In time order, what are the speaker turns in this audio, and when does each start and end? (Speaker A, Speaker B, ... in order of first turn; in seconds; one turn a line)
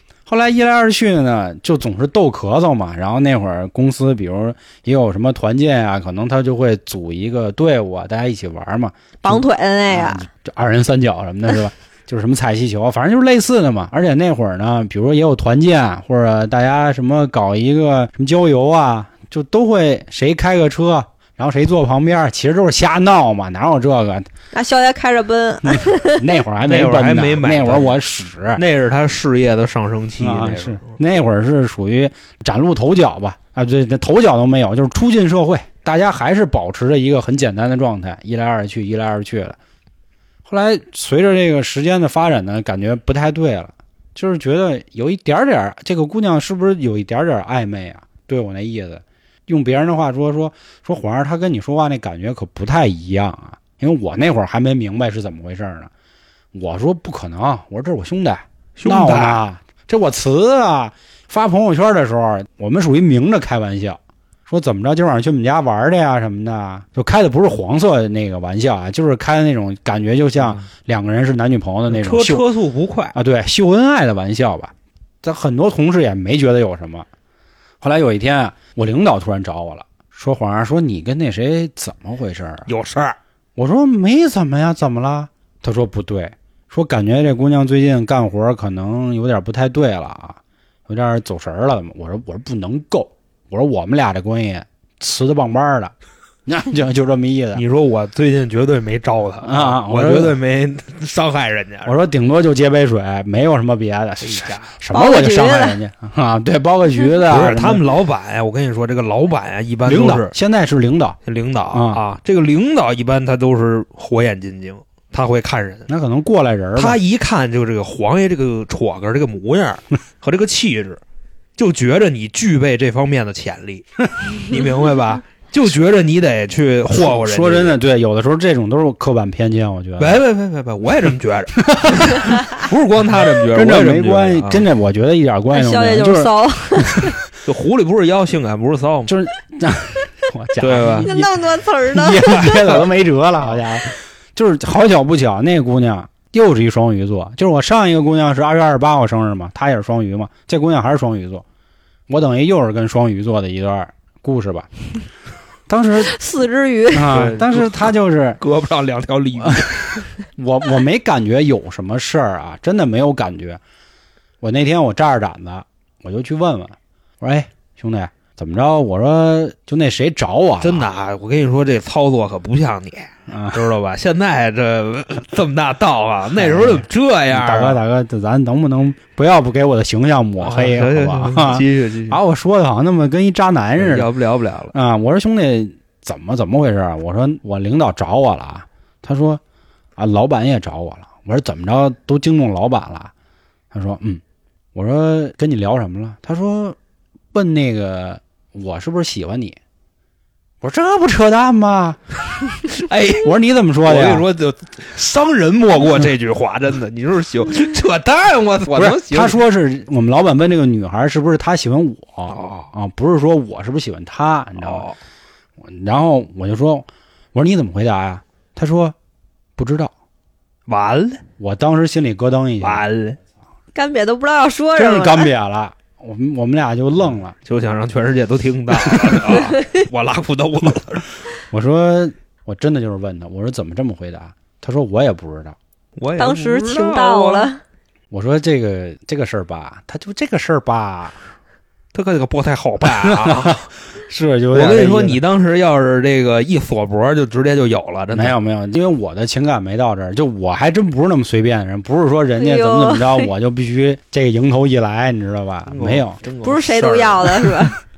Speaker A: 0.3-24.3
Speaker B: 9.2-10.2
Speaker B: 24.5-26.2
Speaker A: 25.6-28.6
Speaker C: 26.7-28.0
Speaker C: 28.6-30.9
Speaker A: 30.2-39.6
Speaker A: 40.5-55.9
Speaker A: 56.5-72.5
Speaker C: 58.8-59.4
Speaker C: 71.9-73.2
Speaker A: 73.1-74.7
Speaker A: 75.2-77.1
Speaker A: 77.8-82.7
Speaker C: 82.7-83.2
Speaker A: 83.6-95.9
Speaker A: 96.5-97.6
Speaker C: 97.5-101.9
Speaker A: 99.4-100.4
Speaker A: 101.8-107.8
Speaker C: 104.2-104.7
Speaker B: 104.9-105.8
Speaker C: 107.2-110.3
Speaker A: 109.8-111.2
Speaker C: 111.2-115.9
Speaker A: 111.7-112.0
Speaker A: 115.9-117.0
Speaker C: 116.8-121.0
Speaker C: 121.6-127.8
Speaker A: 126.9-130.2
Speaker C: 130.0-134.7
Speaker A: 131.6-132.4
Speaker A: 133.5-136.3
Speaker B: 135.5-137.2
Speaker C: 137.4-139.1
Speaker A: 139.1-141.3
Speaker C: 140.6-141.1
Speaker B: 141.0-142.8
Speaker A: 141.9-151.4
Speaker A: 152.1-154.7
Speaker A: 155.7-156.2
Speaker B: 156.0-157.1
Speaker A: 156.9-158.4
Speaker C: 157.1-160.1
Speaker A: 159.4-163.6
Speaker A: 164.4-170.9
Speaker C: 170.6-177.8
Speaker A: 173.3-173.6
Speaker A: 176.3-184.1
Speaker C: 180.4-182.2
Speaker C: 183.8-184.7
Speaker A: 184.7-189.4
Speaker A: 190.0-193.1
Speaker A: 193.7-194.2
Speaker A: 194.8-196.8
Speaker A: 197.3-199.6
Speaker A: 200.6-202.0
Speaker C: 202.7-209.4
Speaker A: 203.2-204.3
Speaker A: 208.7-214.9
Speaker C: 212.3-212.7
Speaker C: 214.6-215.0
Speaker A: 215.6-218.9
Speaker A: 219.6-219.9
Speaker C: 220.7-221.2
Speaker A: 221.4-222.8
Speaker C: 222.6-223.2
Speaker B: 223.8-225.3
Speaker A: 224.8-227.3
Speaker C: 227.4-231.1
Speaker A: 231.5-235.6
Speaker C: 236.0-237.5
Speaker B: 236.2-237.6
Speaker A: 238.1-241.2
Speaker C: 241.9-243.7
Speaker A: 243.0-245.2
Speaker C: 244.5-248.4
Speaker A: 248.1-256.2
Speaker B: 252.4-253.3
Speaker C: 255.7-257.7
Speaker B: 256.4-257.8